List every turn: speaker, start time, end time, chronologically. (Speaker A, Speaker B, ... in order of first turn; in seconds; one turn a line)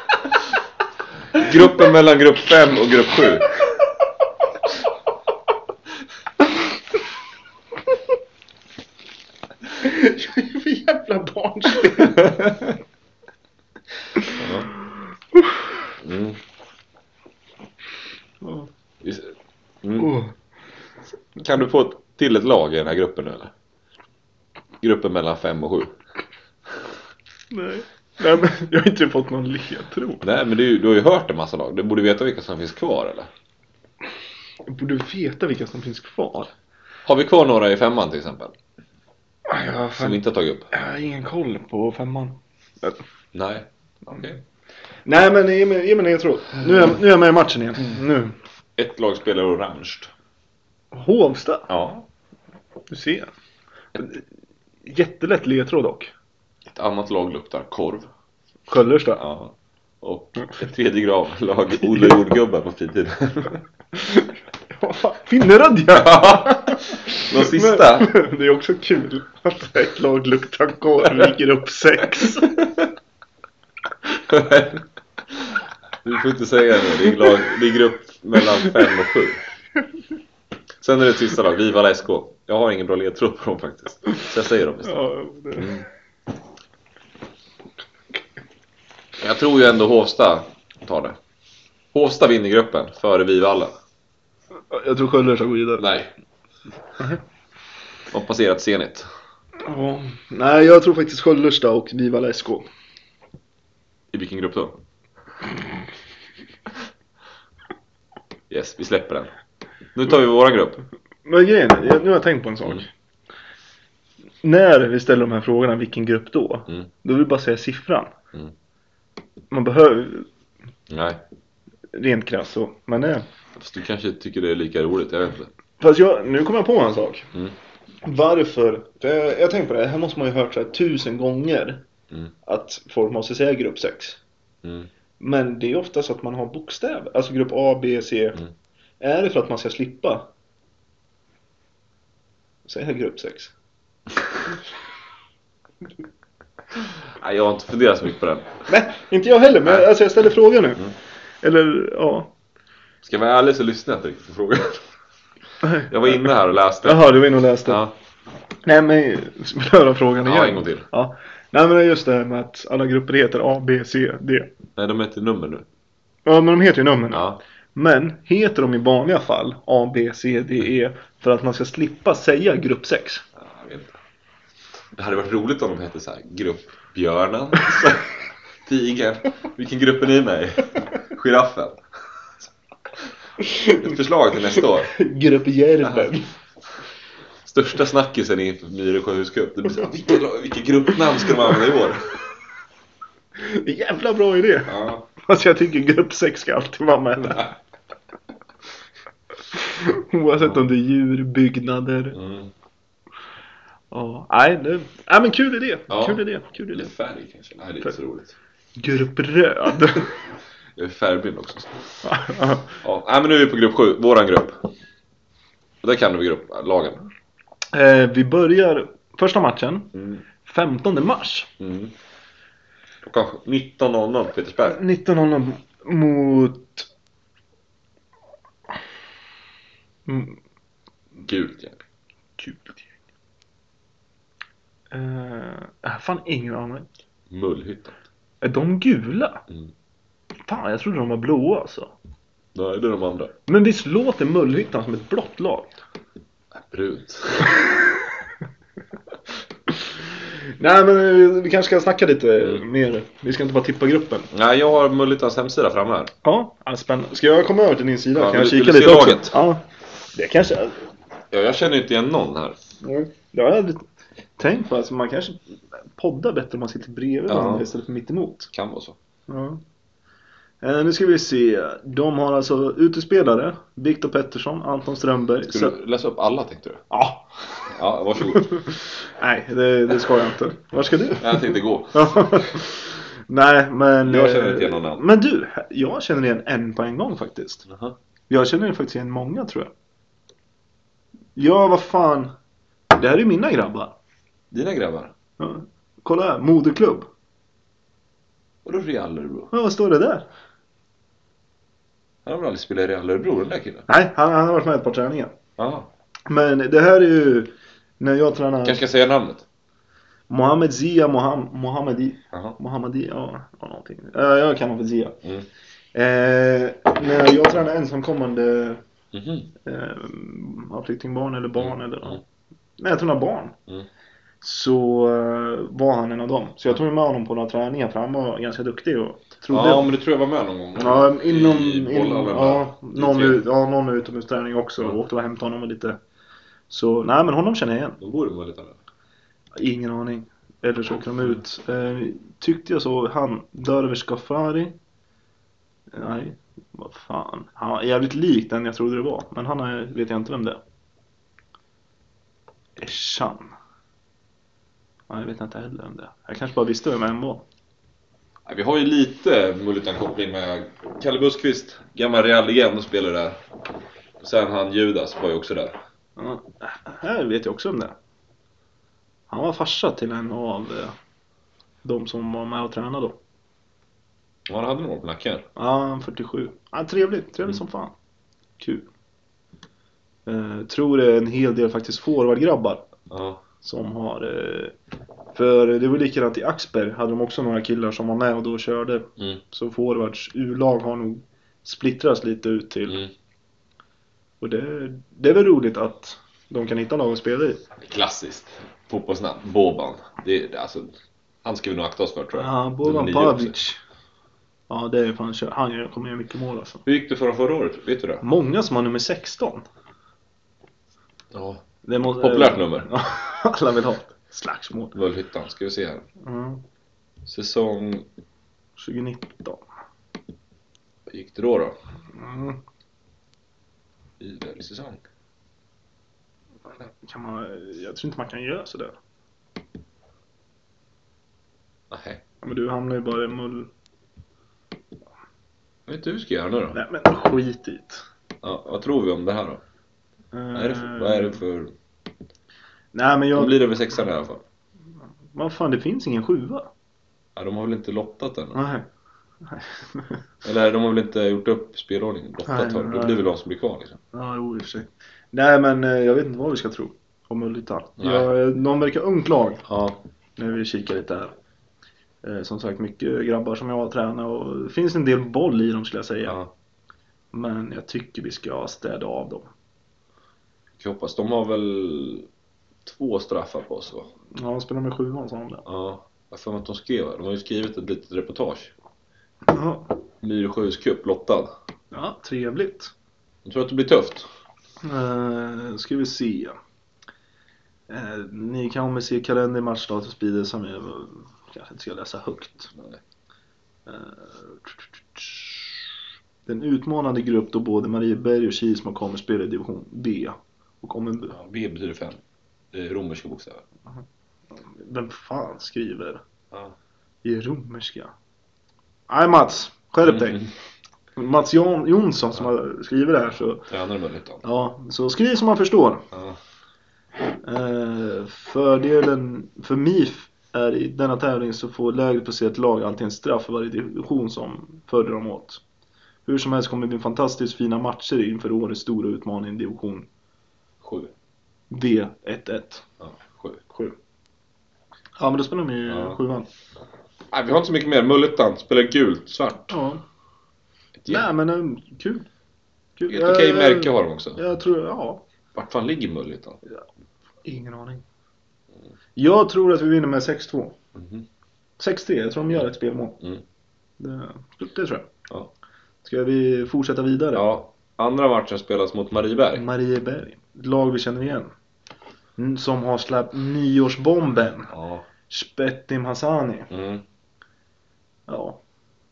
Speaker A: 1.3-3.5
Speaker B: 9.8-12.4
Speaker A: 14.3-14.7
Speaker A: 16.0-16.4
Speaker B: 18.4-18.7
Speaker A: 19.0-20.2
Speaker B: 20.0-20.3
Speaker A: 21.4-23.5
Speaker A: 24.8-26.0
Speaker B: 27.5-30.2
Speaker A: 30.2-33.3
Speaker B: 34.6-36.5
Speaker A: 37.1-38.5
Speaker B: 39.5-43.0
Speaker A: 40.0-40.7
Speaker A: 43.3-44.4
Speaker B: 45.0-48.4
Speaker A: 48.8-50.1
Speaker B: 50.9-51.7
Speaker A: 51.7-52.1
Speaker B: 52.9-53.3
Speaker B: 54.0-54.2
Speaker B: 54.8-56.1
Speaker A: 56.7-58.1
Speaker B: 58.7-59.2
Speaker A: 59.2-63.6
Speaker B: 64.0-72.7
Speaker A: 65.9-68.1
Speaker A: 72.4-72.7
Speaker A: 74.3-79.4
Speaker A: 80.8-85.0
Speaker B: 84.8-85.8
Speaker A: 85.5-85.8
Speaker A: 89.2-91.2
Speaker A: 91.9-93.8
Speaker B: 94.7-95.9
Speaker A: 95.8-96.1
Speaker A: 98.1-99.1
Speaker B: 99.6-102.7
Speaker A: 104.1-104.8
Speaker A: 108.5-109.3
Speaker A: 110.0-110.8
Speaker B: 111.2-112.9
Speaker B: 114.4-118.1
Speaker B: 119.5-120.3
Speaker A: 120.9-121.2
Speaker B: 121.9-123.2
Speaker A: 123.6-125.5
Speaker B: 125.8-127.3
Speaker B: 128.0-131.8
Speaker B: 132.4-134.2
Speaker A: 134.6-134.9
Speaker B: 135.2-138.4
Speaker B: 139.0-140.3
Speaker B: 142.7-143.5
Speaker A: 147.1-148.6
Speaker B: 148.7-150.9
Speaker B: 151.4-152.3
Speaker A: 153.0-154.8
Speaker B: 155.6-155.9
Speaker A: 155.9-157.9
Speaker B: 156.8-157.8
Speaker B: 158.6-164.5
Speaker A: 160.2-160.9
Speaker A: 164.8-165.7
Speaker B: 166.3-173.2
Speaker A: 167.1-167.4
Speaker A: 173.4-174.0
Speaker A: 174.9-181.8
Speaker B: 183.4-183.9
Speaker A: 183.7-184.9
Speaker B: 184.9-186.3
Speaker A: 185.8-186.1
Speaker A: 187.4-192.2
Speaker B: 193.4-197.5
Speaker A: 194.7-195.1
Speaker B: 199.5-202.2
Speaker A: 202.1-202.5
Speaker B: 203.9-206.9
Speaker A: 205.9-208.3
Speaker B: 208.8-210.2
Speaker A: 210.8-211.8
Speaker B: 212.0-212.8
Speaker A: 212.8-214.7
Speaker A: 215.8-217.1
Speaker B: 217.7-221.5
Speaker A: 219.9-220.2
Speaker A: 221.6-221.9
Speaker A: 223.0-224.8
Speaker B: 224.6-226.9
Speaker B: 230.1-230.4
Speaker A: 231.3-231.8
Speaker B: 232.4-232.9
Speaker B: 234.9-236.9
Speaker A: 237.3-238.0
Speaker B: 238.4-239.4
Speaker B: 240.5-241.9
Speaker A: 242.5-243.3
Speaker B: 243.5-245.7
Speaker A: 246.5-247.7
Speaker B: 250.1-254.3
Speaker A: 254.3-256.1
Speaker B: 256.2-259.6
Speaker A: 258.2-259.4
Speaker B: 260.1-260.8
Speaker A: 261.3-262.6
Speaker B: 262.8-263.9
Speaker B: 264.4-268.5
Speaker A: 267.3-267.7
Speaker A: 268.5-269.0
Speaker B: 269.3-269.6
Speaker B: 270.6-275.8
Speaker A: 275.5-276.8
Speaker B: 276.9-287.7
Speaker A: 277.7-278.7
Speaker A: 281.2-282.6
Speaker A: 284.0-285.0
Speaker A: 287.7-288.0
Speaker B: 288.3-289.7
Speaker B: 291.4-292.3
Speaker B: 292.9-294.0
Speaker A: 294.5-295.1
Speaker B: 295.4-297.1
Speaker A: 298.6-299.5
Speaker B: 299.5-300.3
Speaker A: 302.2-303.9
Speaker B: 303.9-305.4
Speaker A: 305.6-305.9
Speaker B: 306.3-308.8
Speaker A: 308.6-309.4
Speaker B: 310.3-315.2
Speaker B: 315.9-318.8
Speaker A: 319.1-319.5
Speaker B: 319.6-322.2
Speaker A: 321.6-322.2
Speaker B: 322.8-323.6
Speaker B: 324.4-329.9
Speaker A: 329.5-333.4
Speaker B: 330.8-336.0
Speaker B: 336.7-338.0
Speaker A: 338.0-338.8
Speaker B: 339.6-344.8
Speaker B: 345.9-350.6
Speaker B: 352.8-353.5
Speaker B: 355.1-357.4
Speaker A: 358.4-363.4
Speaker A: 364.2-365.8
Speaker B: 366.2-368.0
Speaker B: 369.3-370.9
Speaker B: 371.8-373.2
Speaker A: 374.5-375.5
Speaker B: 375.6-377.9
Speaker B: 378.6-378.9
Speaker B: 380.3-382.9
Speaker A: 383.1-383.4
Speaker B: 383.6-384.7
Speaker B: 385.3-393.0
Speaker B: 394.4-397.6
Speaker A: 397.8-403.5
Speaker B: 402.3-403.8
Speaker B: 404.7-406.8
Speaker A: 406.9-408.2
Speaker B: 408.2-409.6
Speaker A: 411.3-411.6
Speaker B: 411.8-415.0
Speaker A: 412.2-412.9
Speaker A: 414.9-416.0
Speaker B: 416.2-416.6
Speaker A: 417.2-418.1
Speaker B: 418.8-419.6
Speaker A: 421.1-421.8
Speaker B: 422.2-422.6
Speaker A: 424.2-425.0
Speaker B: 426.8-428.9
Speaker A: 431.9-432.2
Speaker B: 432.4-433.7
Speaker A: 435.9-436.8
Speaker B: 436.7-438.1
Speaker A: 438.4-439.6
Speaker B: 440.3-441.4
Speaker A: 440.5-441.7
Speaker B: 442.9-443.6
Speaker A: 443.3-444.4
Speaker B: 445.3-446.7
Speaker A: 447.4-448.6
Speaker B: 448.5-448.9
Speaker B: 449.4-450.2
Speaker A: 450.4-454.0
Speaker B: 452.5-453.3
Speaker B: 454.1-459.6
Speaker A: 458.0-458.3
Speaker A: 459.7-460.0
Speaker B: 460.4-461.3
Speaker B: 462.2-466.4
Speaker A: 466.3-466.5
Speaker B: 467.3-469.5
Speaker A: 470.8-472.3
Speaker A: 472.9-474.1
Speaker B: 474.3-475.6
Speaker A: 475.7-478.7
Speaker B: 479.5-479.9
Speaker A: 480.2-481.5
Speaker B: 481.9-482.9
Speaker A: 483.4-484.3
Speaker B: 484.8-486.6
Speaker B: 487.9-492.7
Speaker A: 492.8-493.0
Speaker B: 493.9-495.9
Speaker B: 496.5-501.4
Speaker A: 501.3-502.2
Speaker A: 502.7-503.6
Speaker B: 504.6-506.2
Speaker B: 507.2-508.1
Speaker B: 509.1-510.5
Speaker A: 510.0-510.5
Speaker B: 511.2-513.7
Speaker A: 513.7-514.4
Speaker B: 514.4-516.1
Speaker A: 516.1-516.4
Speaker B: 517.4-525.6
Speaker B: 526.2-530.1
Speaker A: 530.8-531.1
Speaker B: 531.7-532.9
Speaker A: 533.0-533.6
Speaker B: 533.7-534.0
Speaker B: 535.2-536.5
Speaker A: 535.9-536.2
Speaker A: 537.3-539.8
Speaker B: 539.7-540.0
Speaker A: 541.0-541.3
Speaker B: 541.1-542.3
Speaker B: 543.0-545.2
Speaker A: 543.1-544.4
Speaker A: 545.5-546.6
Speaker B: 547.4-548.0
Speaker B: 549.2-550.8
Speaker A: 551.0-551.2
Speaker B: 551.8-553.2
Speaker B: 554.0-555.1
Speaker B: 556.0-557.5
Speaker A: 557.3-559.7
Speaker B: 559.5-561.5
Speaker B: 562.4-564.7
Speaker A: 564.7-565.0
Speaker B: 565.3-566.7
Speaker A: 566.7-567.0
Speaker B: 568.3-568.6